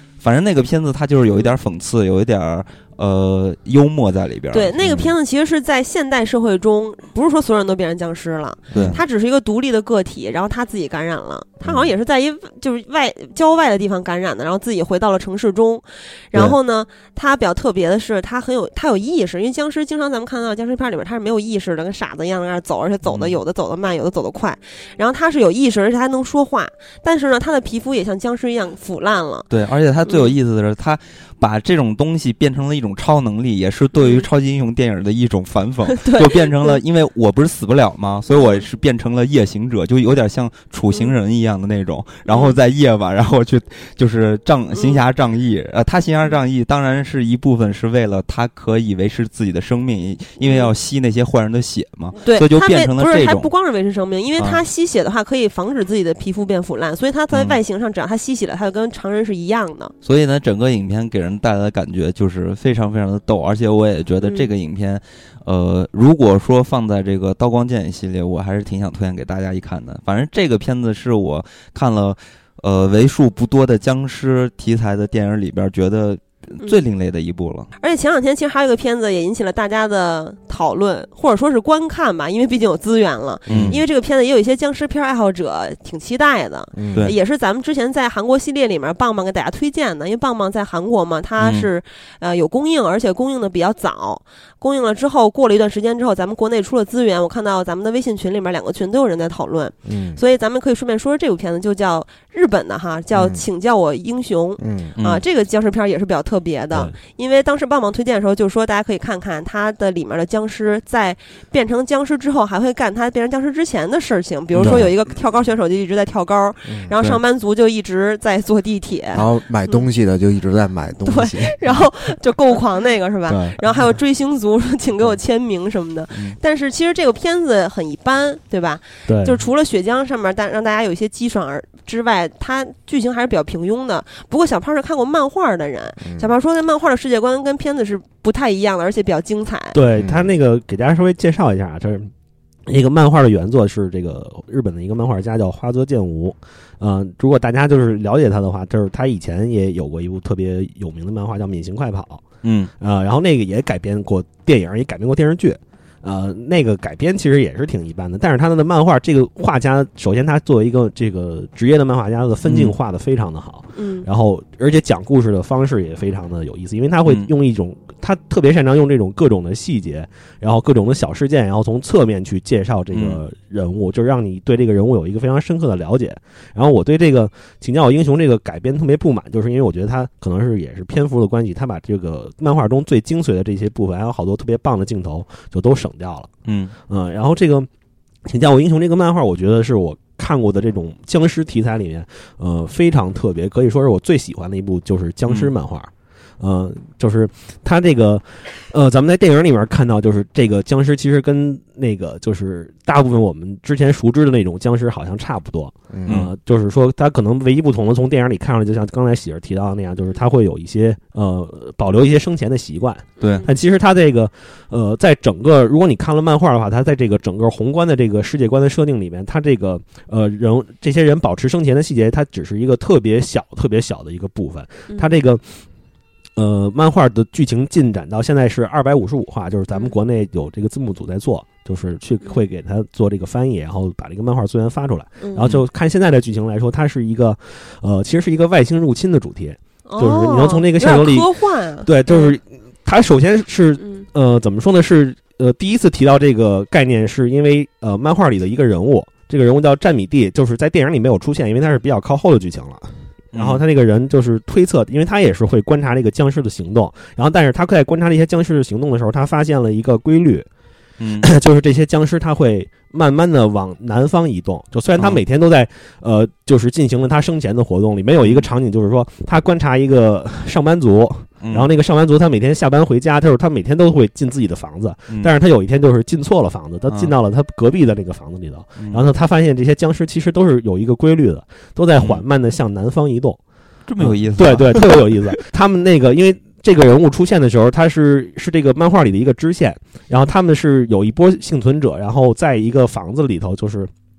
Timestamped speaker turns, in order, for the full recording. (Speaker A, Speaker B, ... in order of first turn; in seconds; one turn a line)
Speaker A: 0.2-4.9
Speaker B: 1.3-1.6
Speaker B: 4.5-29.5
Speaker C: 4.8-5.1
Speaker C: 8.7-9.0
Speaker A: 8.7-9.0
Speaker C: 11.6-11.9
Speaker A: 23.1-23.4
Speaker A: 29.5-53.5
Speaker B: 30.1-30.4
Speaker B: 34.0-34.3
Speaker B: 35.9-36.8
Speaker B: 38.3-38.6
Speaker B: 42.3-42.6
Speaker B: 44.7-45.0
Speaker B: 50.4-50.7
Speaker B: 52.2-59.9
Speaker A: 57.3-57.6
Speaker A: 60.0-77.7
Speaker B: 64.2-64.5
Speaker B: 77.8-119.8
Speaker C: 83.5-83.8
Speaker A: 83.5-83.8
Speaker C: 86.7-87.1
Speaker A: 91.4-91.7
Speaker C: 99.8-100.2
Speaker C: 103.1-103.4
Speaker C: 104.6-105.0
Speaker A: 105.0-105.2
Speaker A: 114.5-114.9
Speaker C: 114.6-114.9
Speaker C: 116.7-116.9
Speaker C: 119.2-121.6
Speaker B: 121.1-139.8
Speaker C: 123.3-123.6
Speaker D: 129.1-129.4
Speaker C: 136.0-136.3
Speaker D: 139.7-142.1
Speaker C: 140.0-140.3
Speaker D: 142.7-152.2
Speaker A: 152.4-152.7
Speaker D: 152.8-186.3
Speaker A: 162.4-162.8
Speaker B: 163.7-164.1
Speaker A: 172.9-173.2
Speaker A: 186.5-186.7
Speaker D: 186.9-187.7
Speaker D: 188.3-225.6
Speaker A: 195.3-195.5
Speaker C: 205.9-206.2
Speaker A: 206.1-206.3
Speaker B: 213.2-213.5
Speaker D: 226.4-241.3
Speaker B: 229.7-230.0
Speaker A: 235.4-235.7
Speaker B: 239.9-242.3
Speaker D: 241.8-260.5
Speaker B: 243.8-244.1
Speaker A: 253.3-253.6
Speaker A: 261.0-261.3
Speaker D: 261.2-283.4
Speaker A: 265.0-265.2
Speaker A: 268.2-268.5
Speaker A: 271.4-271.7
Speaker A: 276.9-277.1
Speaker A: 278.8-279.1
Speaker A: 282.0-282.2
Speaker A: 283.9-285.2
Speaker D: 284.0-293.9